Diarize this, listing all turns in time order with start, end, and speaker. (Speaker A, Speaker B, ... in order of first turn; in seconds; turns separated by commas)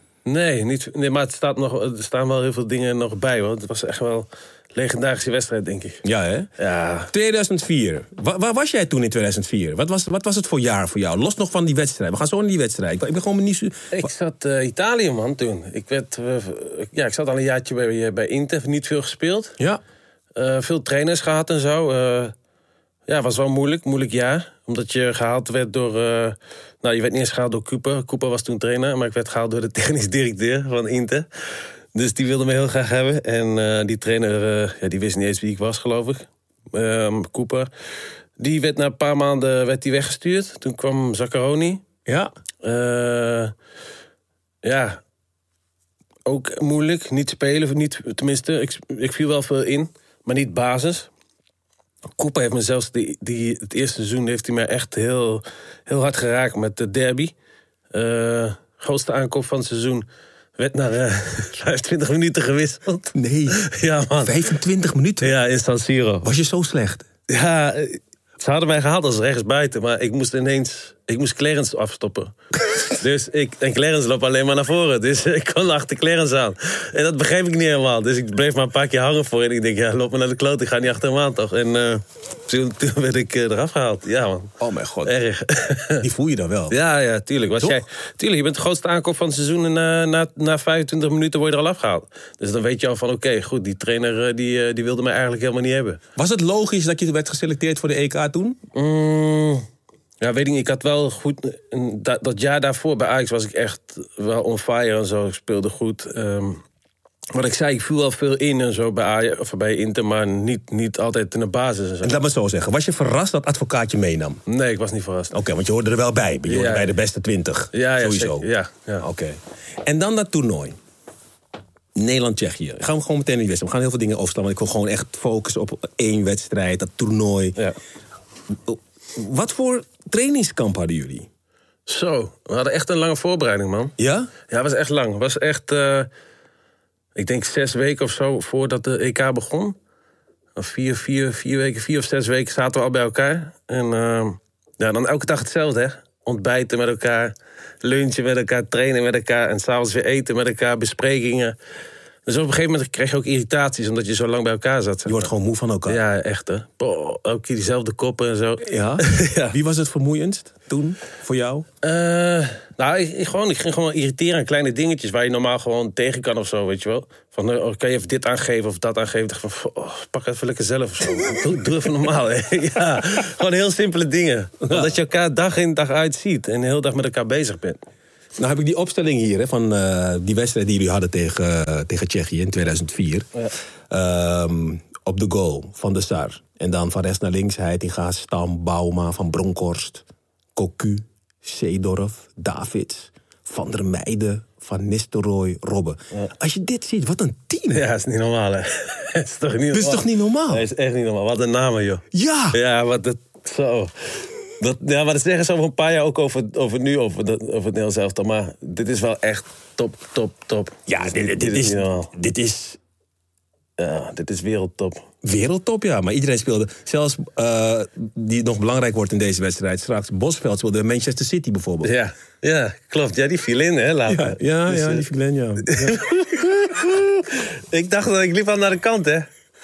Speaker A: 0.2-6.0, Speaker B: 6.0-6.5, Speaker A: 6.6-7.1, Speaker B: 7.1-14.1, Speaker A: 13.9-19.6, Speaker A: 20.4-22.3, Speaker A: 23.1-31.2, Speaker A: 31.9-37.7, Speaker A: 38.4-41.8, Speaker A: 42.6-43.5, Speaker A: 44.6-45.0, Speaker A: 46.2-51.1, Speaker A: 52.2-57.3, Speaker A: 57.9-60.0, Speaker A: 60.6-64.3, Speaker B: 63.1-63.7, Speaker B: 64.2-65.4, Speaker A: 65.2-66.3, Speaker B: 66.2-67.1, Speaker A: 67.3-72.3, Speaker A: 72.9-84.5, Speaker B: 84.6-85.2, Speaker A: 85.0-86.0, Speaker B: 86.0-86.8, Speaker A: 86.7-96.0, Speaker B: 96.2-98.6, Speaker A: 98.8-99.6, Speaker A: 100.2-106.6, Speaker A: 107.3-112.1, Speaker B: 112.0-114.4, Speaker A: 114.5-115.3, Speaker B: 115.3-118.5, Speaker A: 116.5-116.9, Speaker A: 117.7-119.0, Speaker B: 119.0-120.8, Speaker B: 121.9-127.6, Speaker B: 128.5-131.3, Speaker A: 131.9-133.9, Speaker B: 134.0-134.3, Speaker A: 134.5-136.1, Speaker A: 137.1-139.8, Speaker A: 140.6-151.6, Speaker A: 152.2-155.3, Speaker B: 155.0-156.0, Speaker A: 155.9-159.6, Speaker B: 158.6-161.7, Speaker A: 161.8-177.8, Speaker B: 174.6-174.9, Speaker B: 178.4-183.3, Speaker B: 183.9-190.0, Speaker B: 190.6-197.8, Speaker A: 197.7-203.9, Speaker B: 199.7-200.6, Speaker B: 202.1-202.6, Speaker A: 204.6-212.1, Speaker B: 210.9-212.8, Speaker A: 213.8-215.0, Speaker B: 215.2-221.9, Speaker A: 221.8-225.0, Speaker B: 224.1-226.1, Speaker A: 225.7-229.3